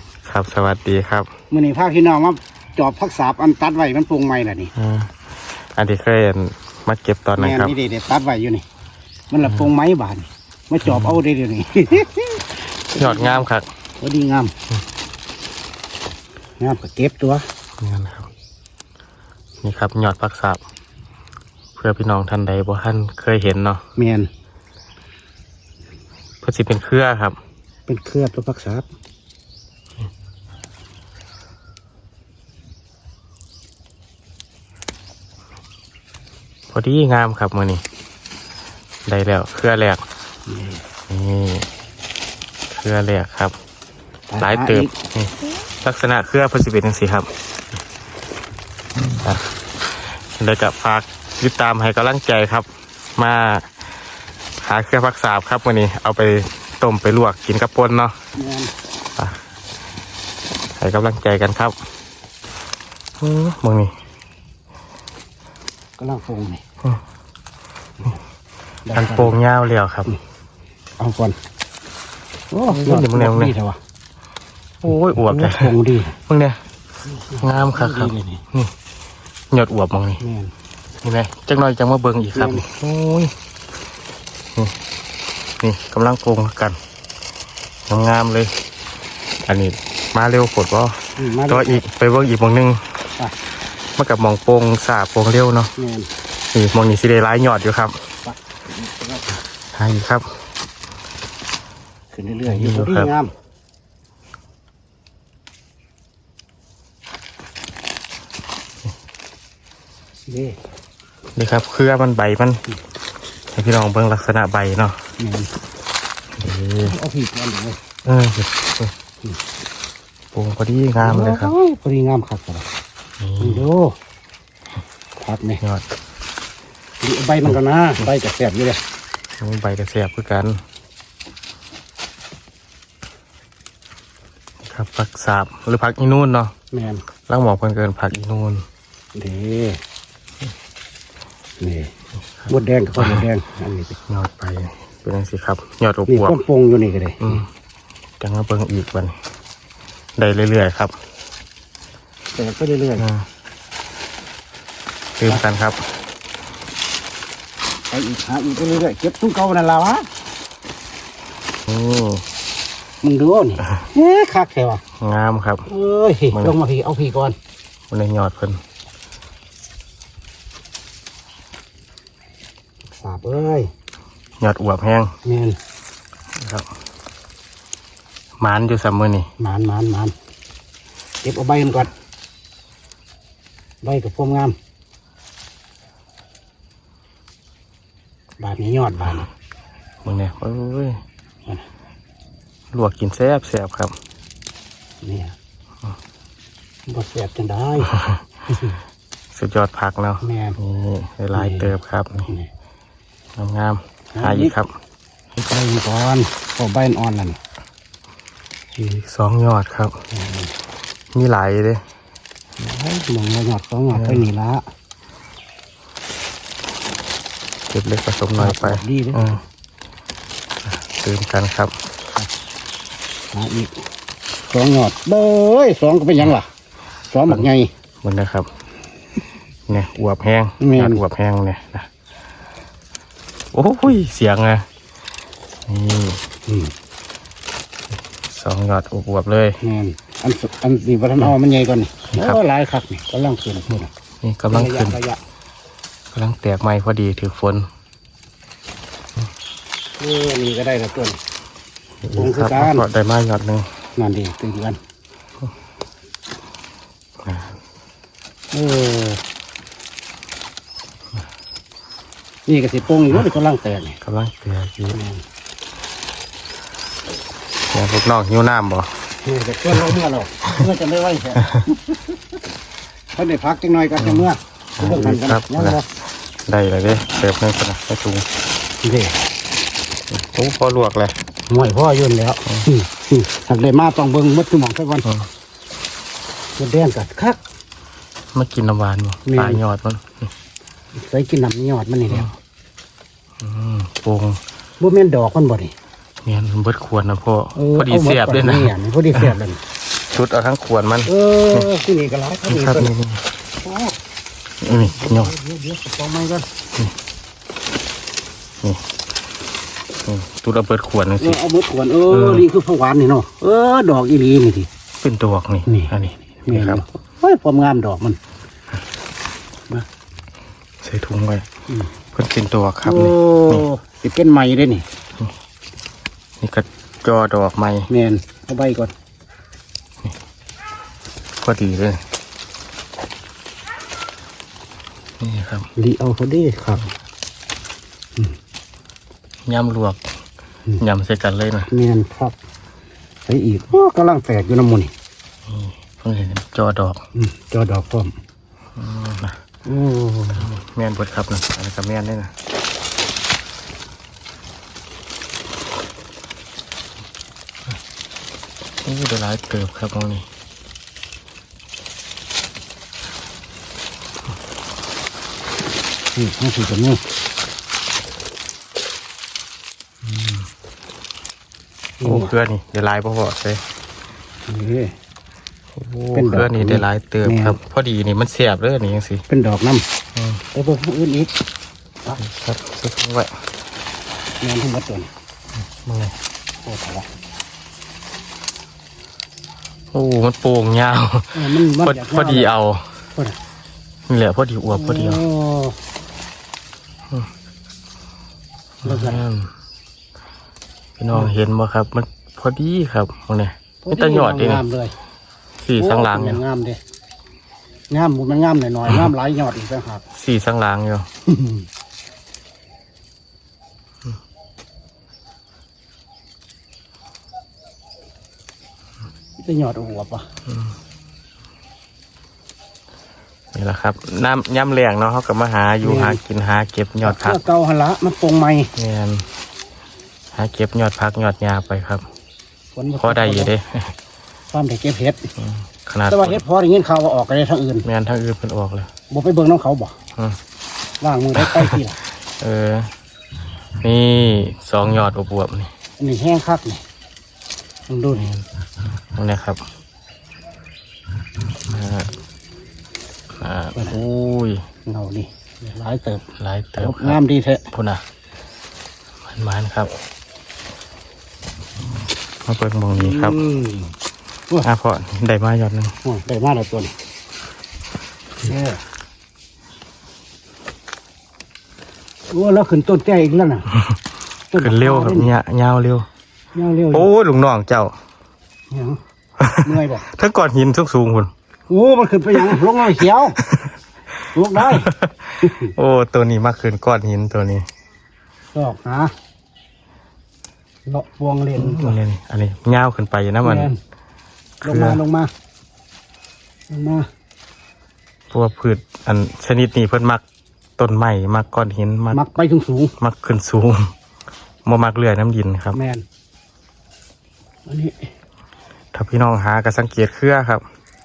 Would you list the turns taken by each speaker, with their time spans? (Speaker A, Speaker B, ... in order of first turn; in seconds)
Speaker A: 0.2-1.3, 4.7-5.2, 5.7-7.7, 10.8-11.2, 13.0-13.7, 17.8-18.3, 19.6-20.6, 21.8-23.8, 26.4-27.4, 36.7-37.8, 39.0-40.0, 41.1-41.7, 42.7-43.5, 44.4-47.3, 49.0-53.7, 54.6-58.1, 60.8-61.8, 63.2-63.9, 68.9-70.1, 72.7-73.5, 74.8-75.7, 76.3-76.6, 77.4-78.7, 79.5-80.2, 81.0-83.3, 85.6-86.8, 87.9-88.5, 89.5-92.8, 94.0-95.7, 96.5-98.0, 99.7-100.3, 102.5-103.1, 111.3-112.6, 113.5-115.0, 116.4-116.9, 118.0-118.9, 120.3-121.5, 123.2-123.6, 129.4-130.6, 134.6-136.5, 137.3-138.6, 142.4-143.2, 144.1-146.4, 148.2-149.2, 150.2-150.9, 153.0-153.2, 155.2-155.8, 161.7-162.2, 165.0-165.6, 167.9-168.6, 174.4-175.1, 176.4-176.7, 178.4-179.3, 190.0-191.0, 192.7-193.9, 199.3-202.3, 203.3-204.7, 208.8-209.9, 211.1-211.8, 213.9-214.2, 217.7-219.4, 220.6-221.7, 228.0-228.5, 229.7-231.9, 233.5-234.6, 235.7-236.2, 238.3-239.6, 242.1-242.4, 244.2-245.0, 246.1-247.7, 252.0-253.7, 257.2-257.6, 264.0-265.0, 267.7-269.0, 274.0-275.8, 276.5-278.2, 280.1-281.1, 288.3-290.3, 293.4-294.4, 296.2-299.3, 300.1-301.7, 302.5-303.2, 304.6-305.3, 310.0-311.4, 312.1-312.5, 315.0-316.8, 320.8-321.5, 322.1-323.7, 326.4-327.9, 331.4-332.0, 335.2-335.7, 339.4-340.0, 340.8-341.7, 345.5-347.0, 348.8-349.4, 350.3-352.3, 358.8-360.2, 370.0-370.5, 372.0-373.6, 375.8-379.2, 380.1-380.4, 382.1-383.3, 385.8-386.1, 389.9-392.9, 394.1-395.2, 398.8-399.5, 401.0-404.6, 405.6-406.4, 410.1-411.1, 420.5-420.7, 423.5-427.4, 428.8-429.2, 430.3-432.1, 433.0-433.9, 435.4-436.4, 437.8-438.9, 441.4-441.8, 442.4-442.9, 443.8-445.7, 448.1-448.5, 449.1-449.6, 451.6-452.1, 453.4-454.6, 456.4-457.2, 457.7-458.0, 459.2-459.9, 462.5-463.4, 464.6-465.9, 474.6-476.1, 476.9-477.9, 479.4-481.3, 483.4-483.7, 484.6-487.7, 491.6-493.7, 494.6-495.0, 498.3-500.2, 500.8-502.2, 503.0-503.9, 504.6-505.8, 508.9-510.6
Speaker B: 1.5-4.7, 7.4-8.6, 9.3-13.4, 14.0-14.5, 16.6-17.4, 23.9-24.3, 27.9-28.9, 40.5-40.8, 44.3-44.9, 58.4-58.7, 66.0-66.6, 68.8-69.4, 71.0-71.4, 72.5-73.8, 74.9-76.2, 77.1-78.4, 80.2-80.5, 82.3-82.6, 91.2-91.8, 95.8-96.1, 98.2-99.3, 102.1-103.3, 110.3-110.5, 115.2-115.5, 116.8-117.8, 121.0-122.7, 123.4-123.9, 125.2-125.6, 127.0-128.8, 136.7-137.0, 139.1-139.8, 141.6-141.9, 142.5-144.0, 146.1-147.4, 152.3-153.1, 157.9-160.1, 163.0-164.8, 165.7-167.3, 172.9-173.7, 175.2-175.6, 179.4-180.1, 181.2-181.9, 183.8-184.6, 188.4-189.3, 195.0-195.3, 196.9-198.0, 198.5-198.8, 200.2-200.6, 201.3-201.7, 204.1-204.5, 205.3-207.4, 210.1-210.5, 212.6-214.6, 218.4-219.4, 223.3-223.7, 224.5-226.5, 227.1-227.7, 230.6-231.0, 236.5-236.7, 239.6-243.9, 244.5-245.2, 250.0-251.2, 252.1-252.8, 254.0-254.8, 258.5-259.2, 262.5-264.0, 264.9-265.2, 269.2-272.1, 273.1-275.8, 278.8-279.1, 281.5-285.0, 286.6-287.4, 289.2-289.6, 290.9-292.3, 294.8-295.7, 297.5-299.6, 301.1-302.9, 303.6-303.9, 304.7-306.4, 311.2-314.7, 315.7-318.2, 322.8-324.9, 327.9-328.9, 335.8-336.9, 341.7-342.4, 343.2-344.9, 347.1-348.1, 349.6-350.5, 366.1-367.0, 372.0-372.3, 374.5-374.9, 376.1-377.6, 379.3-379.8, 380.5-381.3, 384.4-385.1, 386.6-387.1, 391.3-392.5, 394.7-395.8, 398.8-399.2, 403.8-404.9, 405.8-406.8, 407.9-410.0, 411.3-411.6, 419.4-420.3, 425.8-426.2, 427.0-428.7, 432.7-433.5, 434.5-435.3, 436.1-437.9, 439.1-439.9, 441.0-442.0, 446.0-446.8, 447.9-448.3, 453.7-454.0, 454.8-456.2, 456.8-457.7, 463.0-463.9, 466.0-466.9, 468.4-468.8, 472.3-473.7, 474.5-475.3, 476.5-477.1, 478.7-479.0, 479.6-480.0, 481.7-483.4, 484.3-484.9, 485.4-485.7, 488.5-489.1, 490.9-492.0, 493.4-493.8, 494.6-495.3, 496.7-497.1, 502.1-502.9, 505.7-506.0, 507.6-508.1